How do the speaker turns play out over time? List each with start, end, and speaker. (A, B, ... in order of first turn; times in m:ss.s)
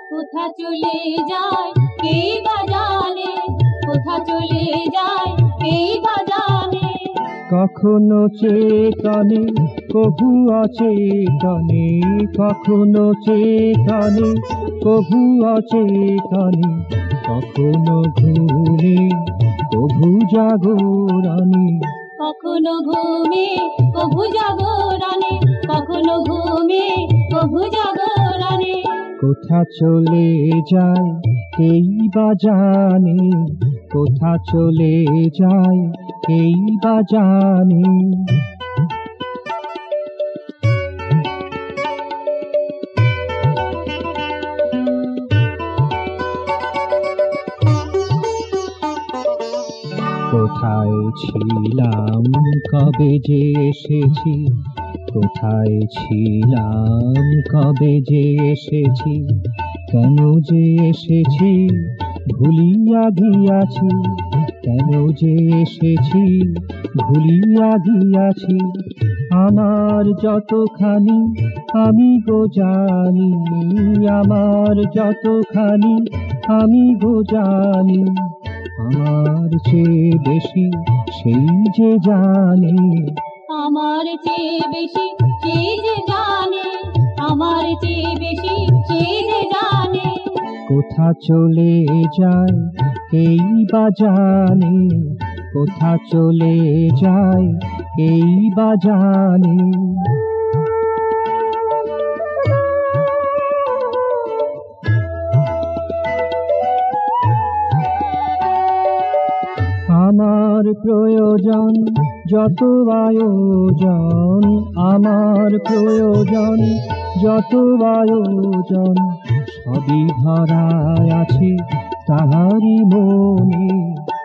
0:00.1-0:07.3 A
0:07.5-0:21.9 B
0:22.2-0:29.1 A
0:29.2-0:38.4 B
0:50.2-1:23.2 B
1:23.5-1:30.5 A
1:30.6-1:40.2 B
1:49.9-2:04.1 B